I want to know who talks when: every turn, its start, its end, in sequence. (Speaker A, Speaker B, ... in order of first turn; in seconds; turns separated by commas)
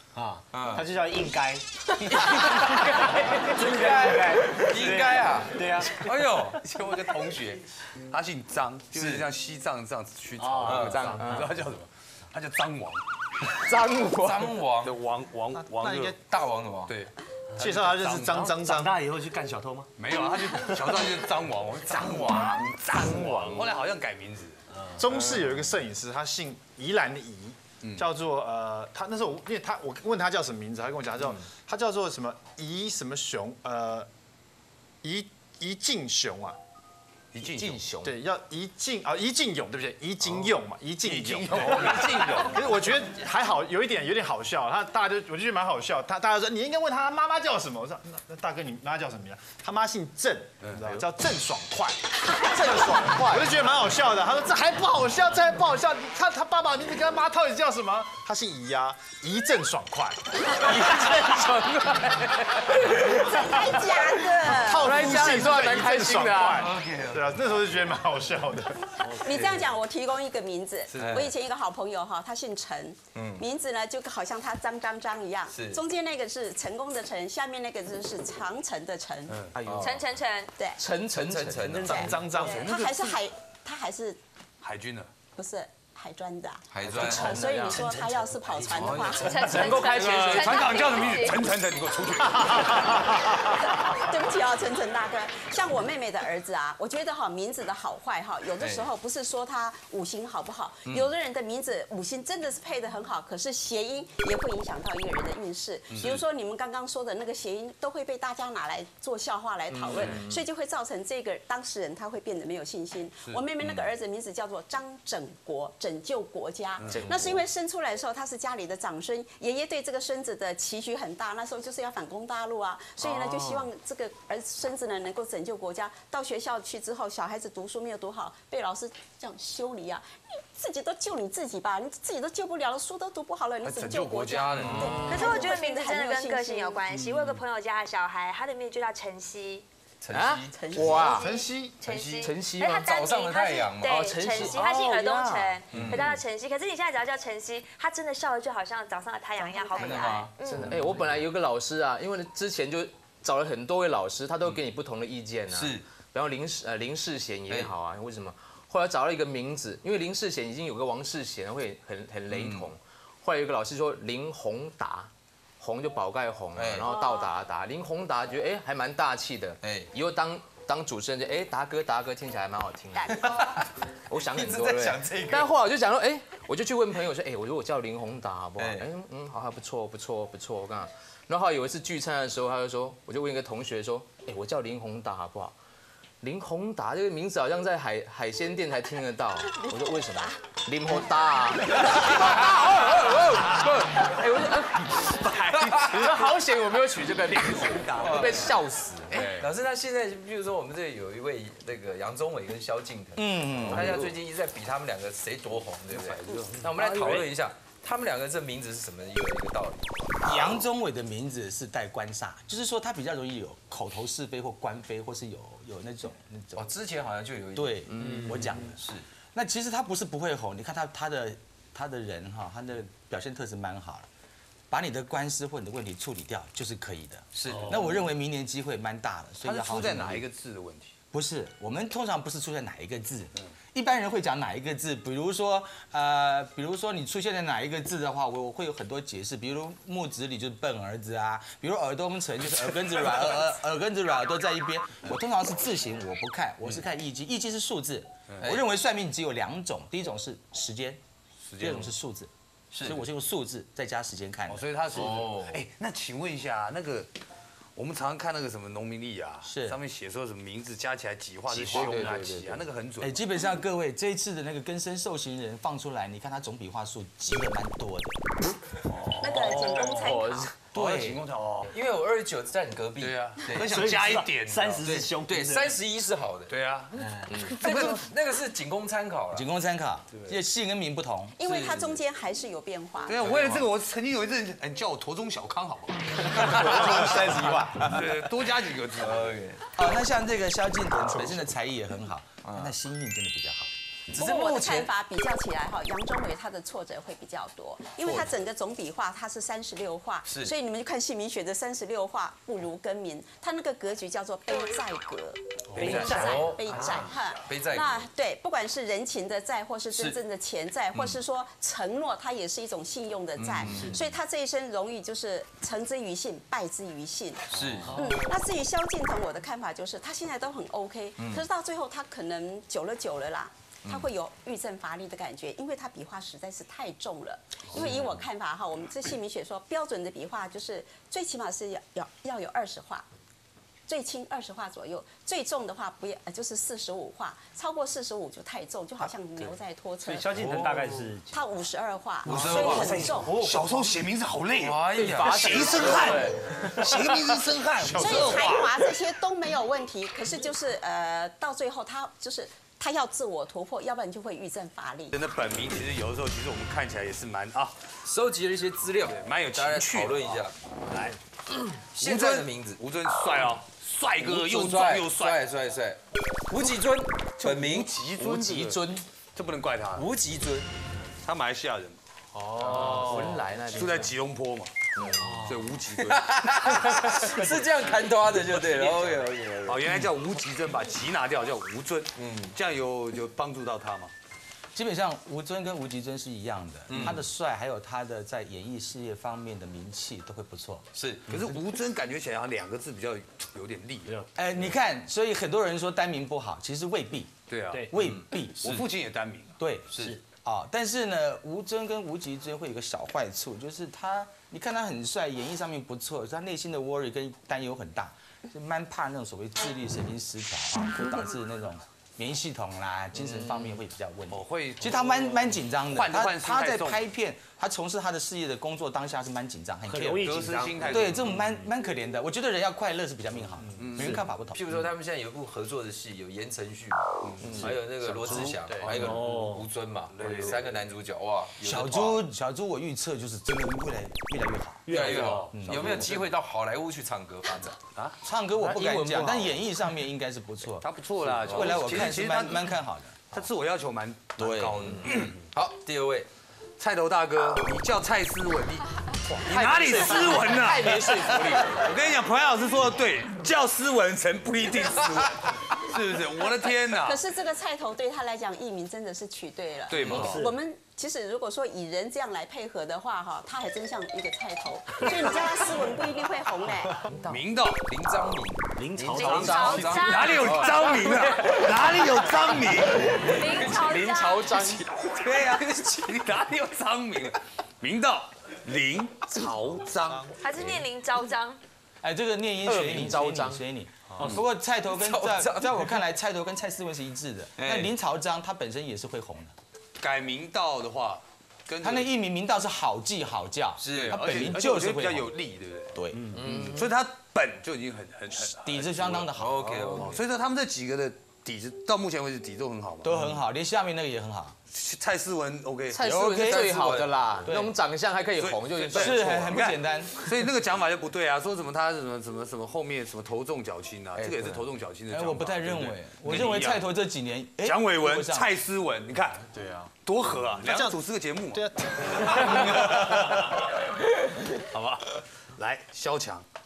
Speaker A: 0.1-6.1, Speaker B: 0.5-0.9, Speaker C: 2.1-2.8, Speaker B: 2.5-6.7, Speaker D: 6.0-13.0, Speaker B: 8.9-9.2, Speaker A: 10.4-11.5, Speaker B: 10.6-11.2, Speaker C: 11.2-11.5, Speaker B: 13.6-14.9, Speaker C: 13.7-14.3, Speaker D: 14.6-16.2, Speaker E: 15.6-16.1, Speaker B: 16.2-16.9, Speaker D: 16.9-18.4, Speaker A: 17.5-21.0, Speaker E: 17.6-18.9, Speaker D: 19.9-24.6, Speaker A: 22.9-23.6, Speaker C: 23.2-23.7, Speaker A: 24.7-25.5, Speaker E: 25.0-34.1, Speaker D: 27.8-28.1, Speaker E: 35.0-36.6, Speaker D: 37.3-37.8, Speaker C: 37.4-38.1, Speaker E: 38.0-60.2, Speaker D: 41.0-42.7, Speaker D: 50.6-51.0, Speaker C: 60.5-63.5, Speaker F: 62.9-65.4, Speaker C: 64.5-66.7, Speaker E: 64.5-69.0, Speaker B: 66.6-67.3, Speaker A: 69.0-69.5, Speaker F: 69.0-79.5, Speaker D: 70.9-71.3, Speaker B: 70.9-71.3, Speaker B: 73.1-73.4, Speaker B: 75.5-75.8, Speaker C: 79.5-80.0, Speaker B: 79.6-80.0, Speaker G: 79.8-80.5, Speaker C: 80.8-81.8, Speaker B: 81.1-82.2, Speaker E: 81.6-83.1, Speaker F: 81.7-84.2, Speaker D: 82.5-83.1, Speaker D: 84.6-85.1, Speaker F: 85.3-90.0, Speaker B: 86.7-87.4, Speaker C: 86.8-88.0, Speaker A: 87.0-89.1, Speaker B: 88.7-90.0, Speaker D: 88.8-93.6, Speaker G: 89.1-91.5, Speaker C: 89.6-90.6, Speaker F: 93.7-136.8, Speaker B: 98.6-98.9, Speaker D: 105.9-106.2, Speaker C: 109.7-110.4, Speaker D: 113.2-113.8, Speaker D: 116.8-117.1, Speaker C: 116.9-117.4, Speaker C: 123.0-123.6, Speaker D: 133.6-135.3, Speaker B: 134.6-135.3, Speaker G: 135.0-139.6, Speaker B: 140.0-140.6, Speaker C: 140.1-141.3, Speaker F: 140.5-141.1, Speaker E: 140.8-142.2, Speaker G: 140.8-150.7, Speaker C: 142.2-142.9, Speaker B: 142.7-144.6, Speaker C: 143.8-145.6, Speaker D: 145.7-146.2, Speaker B: 145.7-146.2, Speaker F: 149.3-150.3, Speaker B: 149.8-150.8, Speaker C: 150.4-173.4, Speaker D: 150.7-151.0, Speaker B: 155.5-155.8, Speaker B: 162.3-162.7, Speaker B: 166.6-166.9, Speaker F: 166.9-167.3, Speaker B: 169.6-169.9, Speaker B: 173.1-175.5, Speaker C: 174.1-185.5, Speaker B: 178.6-178.9, Speaker C: 186.2-199.4, Speaker F: 189.6-190.3, Speaker B: 191.9-193.4, Speaker B: 195.5-196.1, Speaker D: 197.9-198.4, Speaker B: 198.0-198.6, Speaker B: 199.1-210.2, Speaker D: 199.1-199.5, Speaker H: 203.1-203.9, Speaker D: 203.7-204.1, Speaker D: 205.9-206.6, Speaker A: 206.6-207.2, Speaker C: 206.8-207.2, Speaker H: 210.2-216.7, Speaker B: 216.5-219.0, Speaker H: 217.5-218.8, Speaker C: 217.9-218.4, Speaker H: 219.3-224.1, Speaker H: 224.7-230.2, Speaker B: 227.3-227.8, Speaker D: 229.4-230.9, Speaker H: 231.1-251.0, Speaker D: 251.4-251.9, Speaker H: 251.6-252.3, Speaker B: 252.7-253.0, Speaker H: 252.8-254.6, Speaker D: 254.5-257.1, Speaker B: 254.9-255.6, Speaker D: 257.7-263.2, Speaker H: 259.4-259.8, Speaker B: 261.5-262.6, Speaker C: 261.7-262.4, Speaker H: 263.0-268.2, Speaker D: 268.9-270.1, Speaker F: 269.2-270.5, Speaker C: 269.3-270.5, Speaker D: 270.7-271.7, Speaker B: 270.8-271.2, Speaker B: 271.7-274.0, Speaker D: 273.0-274.8, Speaker A: 273.6-275.8, Speaker B: 274.8-276.5, Speaker D: 276.5-278.1, Speaker A: 277.0-277.3, Speaker C: 277.3-277.5, Speaker B: 277.5-279.5, Speaker H: 279.3-281.4, Speaker F: 281.4-283.5, Speaker B: 281.4-282.0, Speaker D: 283.1-289.4, Speaker B: 286.3-287.7, Speaker H: 286.4-288.1, Speaker B: 289.0-289.6, Speaker H: 289.7-293.7, Speaker B: 291.2-291.4, Speaker B: 292.4-292.7, Speaker B: 294.1-294.9, Speaker F: 294.1-333.0, Speaker B: 298.0-298.3, Speaker B: 300.2-300.5, Speaker A: 305.7-307.1, Speaker B: 305.8-308.1, Speaker B: 309.9-310.2, Speaker B: 310.9-311.2, Speaker B: 313.4-314.1, Speaker A: 313.7-314.0, Speaker B: 317.5-318.1, Speaker A: 317.9-318.3, Speaker B: 321.2-321.4, Speaker B: 327.7-328.1, Speaker F: 333.9-343.4, Speaker A: 340.0-341.4, Speaker B: 340.3-340.9, Speaker B: 342.2-343.2, Speaker D: 342.3-348.9, Speaker A: 342.3-344.0, Speaker B: 344.6-346.4, Speaker C: 344.9-346.9, Speaker F: 347.9-355.2, Speaker D: 355.1-357.7, Speaker B: 358.0-360.5, Speaker D: 359.0-361.1, Speaker B: 361.9-362.8, Speaker D: 362.0-365.5, Speaker B: 364.2-368.6, Speaker D: 367.4-368.8, Speaker C: 368.4-369.0, Speaker D: 369.3-370.1, Speaker B: 369.9-370.7, Speaker D: 371.2-374.7, Speaker C: 372.6-374.1, Speaker B: 372.7-373.2, Speaker C: 375.0-375.2, Speaker D: 375.3-377.6, Speaker B: 376.0-380.0, Speaker D: 378.8-384.1, Speaker B: 382.2-382.5, Speaker H: 384.7-390.9, Speaker B: 386.9-387.3, Speaker B: 390.9-391.3, Speaker D: 391.3-394.2, Speaker H: 394.3-398.8, Speaker D: 397.5-397.9, Speaker B: 397.9-398.8, Speaker D: 398.6-399.5, Speaker H: 399.6-424.6, Speaker A: 399.9-400.2, Speaker D: 414.3-417.0, Speaker A: 419.9-421.6, Speaker D: 420.2-421.4, Speaker D: 423.8-424.2, Speaker A: 423.9-424.2, Speaker B: 424.5-432.2, Speaker D: 427.2-427.7, Speaker A: 427.6-429.7, Speaker D: 430.1-430.7, Speaker H: 431.6-436.2, Speaker A: 434.9-435.5, Speaker B: 434.9-437.8, Speaker D: 435.0-436.3, Speaker D: 437.9-439.5, Speaker H: 438.2-440.9, Speaker C: 438.7-439.3, Speaker D: 440.8-442.7, Speaker H: 441.4-443.2, Speaker B: 441.5-441.9, Speaker D: 443.3-445.4, Speaker H: 444.4-444.9, Speaker B: 444.8-446.3, Speaker D: 446.8-457.2, Speaker C: 449.3-451.9, Speaker F: 457.0-467.1, Speaker D: 459.9-460.5, Speaker A: 460.1-460.5, Speaker C: 467.1-467.4, Speaker D: 467.3-467.8, Speaker B: 467.7-470.9, Speaker A: 468.8-469.9, Speaker G: 469.1-471.2, Speaker C: 469.2-470.9, Speaker D: 469.6-473.3, Speaker G: 473.2-474.6, Speaker C: 473.6-475.0, Speaker D: 475.0-480.7, Speaker B: 475.4-475.9, Speaker G: 480.4-481.6, Speaker H: 482.0-489.5, Speaker C: 482.6-483.6, Speaker D: 484.1-484.4, Speaker B: 484.9-486.0, Speaker B: 487.6-487.9, Speaker D: 490.0-492.1, Speaker H: 491.8-495.4, Speaker B: 493.8-494.4, Speaker D: 494.1-496.0, Speaker H: 495.9-496.2, Speaker A: 496.1-496.4, Speaker C: 496.3-496.9, Speaker D: 496.5-503.3, Speaker H: 498.3-500.0, Speaker B: 499.4-500.1, Speaker H: 503.0-504.6, Speaker D: 504.7-506.5, Speaker C: 505.9-509.6, Speaker H: 506.0-507.7, Speaker B: 506.5-507.2, Speaker D: 508.3-516.9, Speaker H: 508.9-510.3, Speaker B: 514.2-514.6, Speaker H: 515.1-518.5, Speaker D: 517.6-523.8, Speaker E: 520.6-521.0, Speaker E: 521.5-522.9, Speaker D: 524.5-526.4